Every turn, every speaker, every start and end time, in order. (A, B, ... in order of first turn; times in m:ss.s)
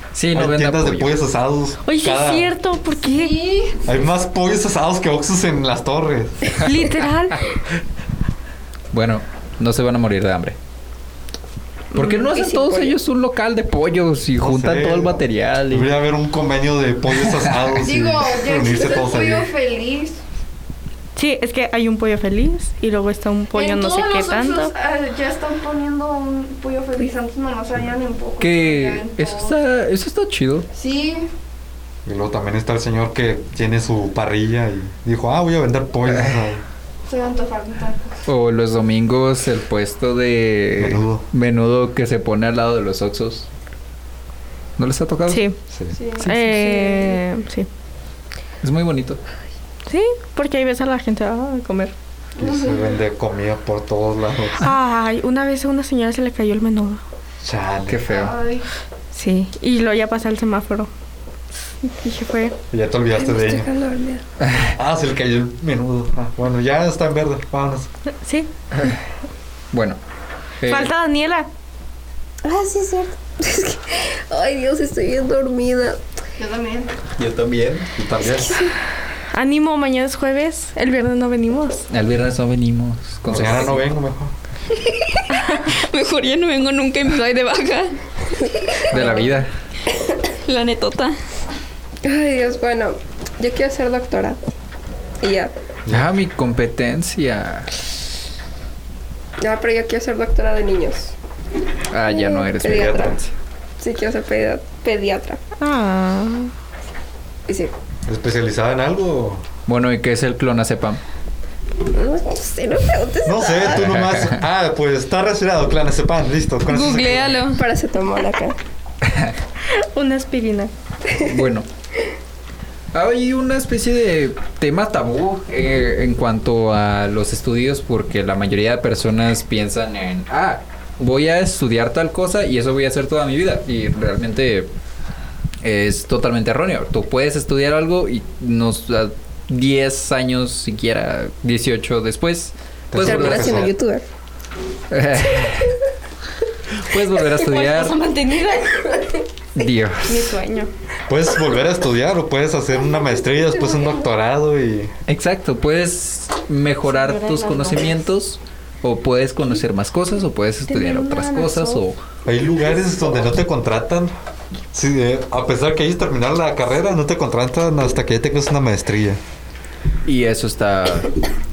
0:00.2-0:01.2 A
0:00.3-0:02.6 B
0:01.9-0:03.5 C
0:03.0-0:03.9 D
0:03.8-0:06.5 B
0:06.6-0:07.6 C
0:08.9-0:10.6 A
0:11.9-0:15.9 A
0:12.0-0:12.3 C
0:12.2-0:13.0 E
0:14.4-0:19.5 B
0:17.3-0:17.7 A
0:17.8-0:20.2 D
0:21.2-0:24.7 C
0:23.5-0:29.6 D
0:28.4-0:30.7 A
0:30.7-0:31.3 D
0:32.0-0:36.6 B
0:36.1-0:36.4 A
0:37.1-0:38.0 D
0:38.3-0:43.5 A
0:40.8-0:41.2 B
0:44.8-0:45.4 A
0:45.3-0:45.6 C
0:45.7-0:46.0 B
0:45.9-0:47.2 D
0:46.2-0:46.6 A
0:46.2-0:47.7 C
0:48.6-0:49.2 A
0:49.9-0:51.9 C
0:52.4-0:53.0 D
0:52.4-0:54.7 B
0:54.6-0:57.0 C
0:57.4-0:58.0 B
0:57.9-0:58.3 A
0:58.1-0:58.6 D
0:59.1-1:00.9 C
1:01.8-1:02.6 C
1:02.7-1:03.7 B
1:03.2-1:04.2 E
1:04.4-1:04.7 A
1:04.7-1:07.9 B
1:08.1-1:08.5 C
1:09.7-1:10.0 A
1:10.6-1:10.9 A
1:10.7-1:11.5 C
1:12.4-1:16.0 E
1:16.4-1:16.9 D
1:17.2-1:17.9 A
1:18.0-1:18.7 B
1:18.4-1:18.7 E
1:19.3-1:21.9 C
1:21.9-1:23.9 A
1:23.2-1:24.4 B
1:24.8-1:27.9 F
1:28.9-1:29.5 A
1:28.9-1:29.2 E
1:30.5-1:31.2 F
1:32.0-1:34.4 E
1:35.2-1:35.5 E
1:35.9-1:37.7 A
1:39.4-1:41.1 E
1:41.9-1:43.3 A
1:42.1-1:43.2 E
1:42.7-1:43.2 B
1:43.8-1:45.4 E
1:45.6-1:46.5 C
1:47.5-1:47.7 E
1:48.1-1:49.4 B
1:49.7-1:51.0 A
1:51.9-1:53.9 E
1:53.2-1:57.4 B
1:53.7-1:54.4 A
1:56.7-1:57.6 F
1:57.5-1:58.6 E
1:59.0-1:59.3 A
1:59.7-2:00.7 C
2:01.2-2:01.7 A
2:02.9-2:14.7 A
2:15.6-2:23.7 A
2:22.9-2:23.7 B
2:23.0-2:24.0 E
2:24.9-2:25.7 A
2:26.7-2:28.0 A
2:27.5-2:28.9 D
2:29.6-2:30.4 A
2:30.1-2:30.7 C
2:31.1-2:34.9 B
2:33.6-2:34.0 E
2:35.1-2:42.0 A
2:36.9-2:37.9 C
2:40.7-2:41.8 C
2:42.2-2:44.1 B
2:44.7-2:49.2 B
2:50.0-2:51.2 A